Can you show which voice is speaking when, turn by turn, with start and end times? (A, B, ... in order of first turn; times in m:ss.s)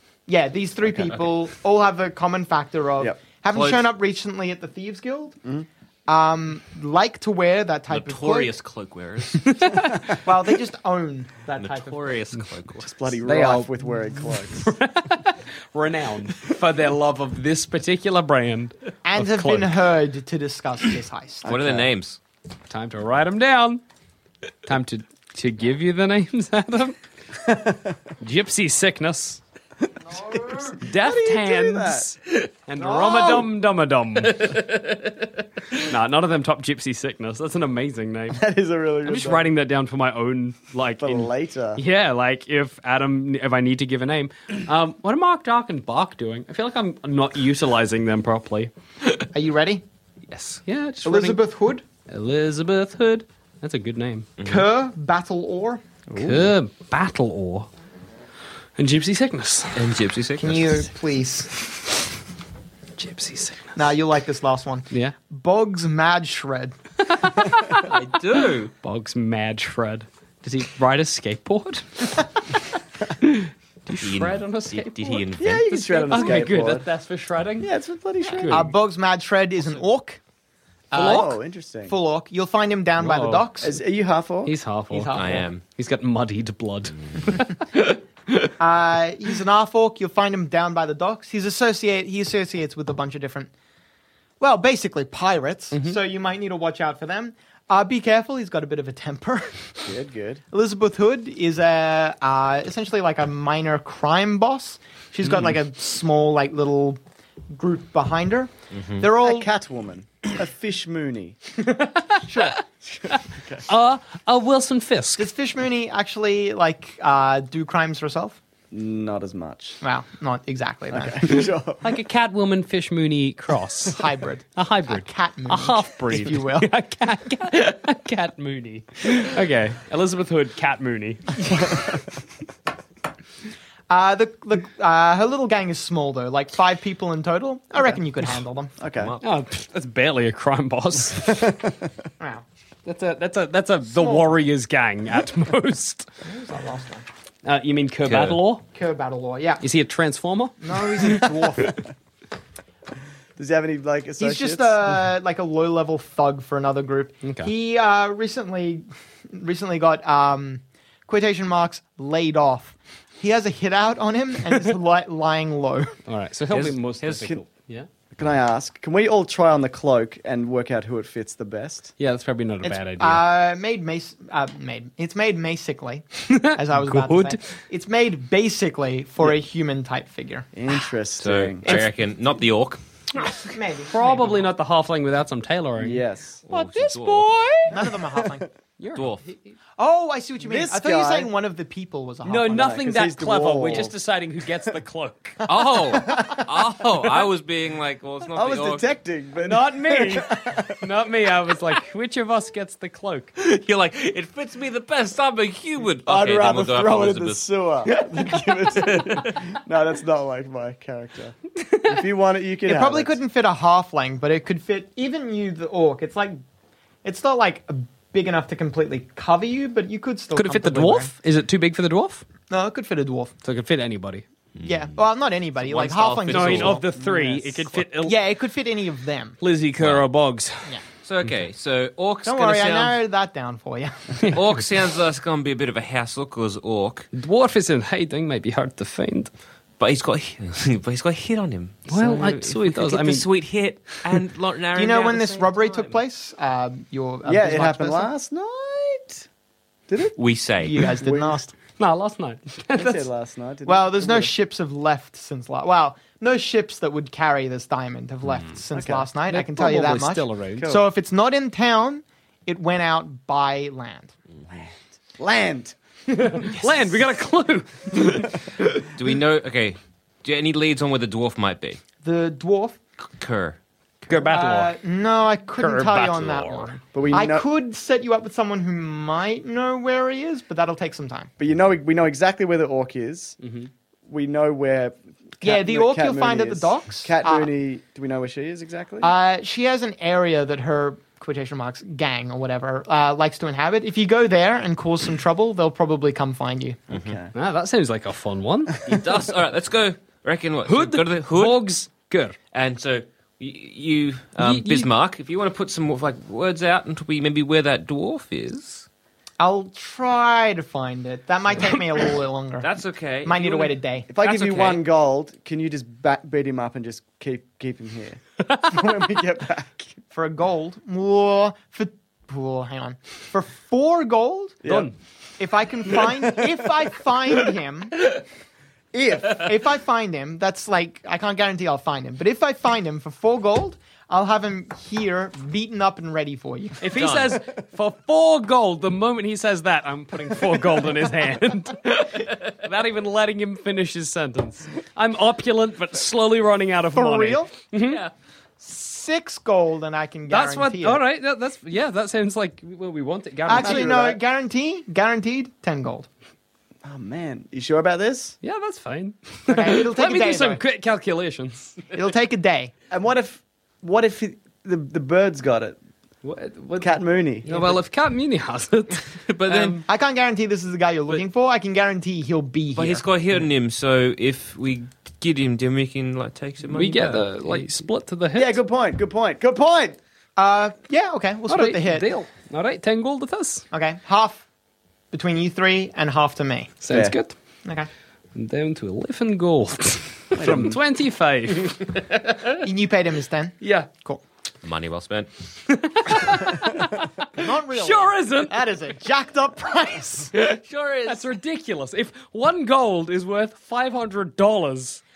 0:00.3-0:05.4 A
0:00.8-0:01.2 B
0:03.5-0:03.9 C
0:06.1-0:08.5 A
0:07.9-0:09.6 C
0:09.5-0:10.0 D
0:10.1-0:12.2 A
0:11.6-0:12.9 C
0:12.8-0:14.7 B
0:13.2-0:19.8 D
0:19.0-0:21.5 A
0:21.4-0:21.9 B
0:21.5-0:22.2 C
0:22.7-0:23.8 D
0:24.7-0:27.0 D
0:27.5-0:27.9 B
0:28.2-0:29.4 D
0:30.2-0:30.7 A
0:30.8-0:34.6 D
0:30.9-0:32.2 B
0:32.8-0:33.5 A
0:34.4-0:35.1 C
0:35.8-0:38.4 D
0:38.3-0:39.5 B
0:39.0-0:48.7 D
0:41.0-0:41.8 B
0:49.3-0:49.8 A
0:50.3-0:50.6 C
0:50.7-0:51.4 D
0:51.0-0:51.8 A
0:52.1-0:54.3 D
0:54.4-0:54.6 C
0:54.4-0:55.8 A
0:56.1-0:56.5 B
0:56.1-0:57.7 D
0:58.8-0:59.9 D
0:59.8-1:00.7 C
1:00.4-1:01.5 A
1:03.0-1:03.7 D
1:03.8-1:06.8 A
1:07.2-1:07.8 D
1:07.7-1:08.7 C
1:08.8-1:12.3 D
1:13.2-1:17.7 D
1:14.0-1:16.4 C
1:15.4-1:16.9 B
1:17.6-1:18.7 B
1:18.3-1:18.7 D
1:18.5-1:20.2 A
1:20.9-1:23.8 A
1:20.9-1:22.0 B
1:23.0-1:23.5 D
1:23.6-1:24.5 B
1:24.4-1:25.2 D
1:24.9-1:25.5 A
1:25.1-1:25.6 C
1:25.8-1:27.5 D
1:28.6-1:33.5 A
1:34.4-1:39.9 A
1:39.8-1:40.4 B
1:40.5-1:47.0 A
1:47.5-1:49.5 A
1:48.7-1:49.0 C
1:49.2-1:51.4 B
1:52.0-1:52.5 D
1:52.3-1:52.6 A
1:53.1-1:55.3 D
1:53.2-1:53.7 B
1:55.2-1:58.4 A
1:58.7-1:59.8 B
1:59.8-2:01.5 A
2:00.9-2:02.0 B
2:01.8-2:04.0 D
2:03.9-2:06.7 A
2:04.6-2:11.4 D
2:13.9-2:18.7 A
2:18.8-2:19.2 B
2:18.9-2:19.3 C
2:19.2-2:21.5 D
2:21.2-2:21.9 B
2:22.8-2:26.1 D
2:23.9-2:24.3 A
2:26.2-2:27.1 A
2:27.4-2:28.6 D
2:28.1-2:28.4 C
2:28.7-2:29.6 A
2:29.6-2:30.6 D
2:30.6-2:31.9 A
2:33.4-2:34.9 B
2:34.2-2:46.0 A
2:37.2-2:37.5 D
2:46.1-2:47.9 D
2:46.5-2:47.3 C
2:48.1-2:51.9 B
2:52.0-2:53.2 D
2:52.6-3:00.5 A
2:56.3-2:57.5 D
3:00.5-3:01.8 B
3:01.2-3:03.3 C
3:03.2-3:04.4 A
3:03.9-3:07.8 D
3:05.8-3:06.4 B
3:06.5-3:07.3 C
3:07.7-3:08.5 A
3:08.8-3:09.3 D
3:09.0-3:09.2 C
3:09.8-3:12.7 A
3:10.4-3:11.3 B
3:12.2-3:15.4 D
3:12.4-3:14.0 B
3:15.5-3:16.4 A
3:15.5-3:18.9 C
3:18.3-3:20.8 B
3:19.4-3:23.3 D
3:23.4-3:29.3 C
3:26.0-3:33.2 B
3:32.7-3:36.4 A
3:37.0-3:41.1 A
3:40.3-3:42.2 D
3:42.5-3:43.3 A
3:43.4-3:44.2 D
3:44.6-3:44.9 C
3:44.6-3:46.9 A
3:45.6-3:46.8 C
3:46.3-3:48.2 D
3:46.9-3:47.6 B
3:48.0-3:49.4 A
3:49.4-3:50.8 D
3:51.0-3:53.0 C
3:52.2-3:54.4 A
3:54.3-3:57.1 C
3:57.1-3:59.3 D
3:59.8-4:05.9 C
4:01.9-4:03.3 D
4:04.8-4:08.1 A
4:07.3-4:09.3 B
4:09.9-4:10.2 B
4:10.2-4:10.8 C
4:10.6-4:11.5 A
4:10.8-4:11.4 B
4:11.8-4:13.1 D
4:12.7-4:14.3 B
4:13.7-4:24.1 A
4:18.7-4:19.1 B
4:19.3-4:20.7 D
4:20.6-4:20.9 B
4:24.5-4:25.8 B
4:26.2-4:28.5 D
4:28.9-4:31.8 C
4:32.0-4:32.8 A
4:33.1-4:33.6 C
4:34.1-4:34.7 D
4:34.3-4:41.3 A
4:35.6-4:36.8 D
4:36.9-4:37.5 B
4:41.4-4:43.4 B
4:43.4-4:43.7 D
4:44.1-4:49.1 B
4:45.4-4:47.5 A
4:49.0-4:56.8 A
4:56.9-4:57.2 C
4:56.9-4:57.3 B
4:57.3-4:58.8 D
4:58.8-5:01.7 C
5:00.6-5:02.4 D
5:02.5-5:08.9 C
5:04.4-5:04.9 D
5:09.4-5:12.7 A
5:12.6-5:14.8 C
5:13.2-5:14.1 A
5:14.1-5:20.0 B
5:20.1-5:24.6 A
5:24.6-5:24.9 B
5:24.7-5:25.0 D
5:25.4-5:28.1 A
5:25.9-5:26.7 B
5:28.9-5:29.5 B
5:29.3-5:36.8 A
5:36.8-5:48.0 D
5:37.0-5:37.4 C
5:46.9-5:47.5 A
5:47.8-5:48.1 C
5:48.6-5:51.0 A
5:50.3-5:53.9 D
5:53.5-5:56.1 A
5:53.6-5:54.2 B
5:56.8-5:58.4 B
5:58.4-6:01.8 D
5:59.5-6:00.6 A
6:01.9-6:02.7 A
6:02.9-6:05.8 B
6:06.2-6:09.8 D
6:06.8-6:07.8 B
6:09.3-6:09.8 C
6:09.8-6:13.0 A
6:12.8-6:17.6 C
6:16.7-6:18.6 D
6:18.3-6:20.0 B
6:20.4-6:22.1 A
6:21.5-6:23.7 D
6:23.7-6:24.4 A
6:25.1-6:26.7 A
6:26.8-6:27.4 D
6:26.9-6:27.2 B
6:28.4-6:31.9 D
6:30.3-6:30.8 B
6:32.6-6:34.2 A
6:33.6-6:33.9 D
6:34.6-6:35.3 C
6:35.7-6:38.6 D
6:37.3-6:40.3 A
6:40.4-6:41.3 C
6:41.0-6:45.0 D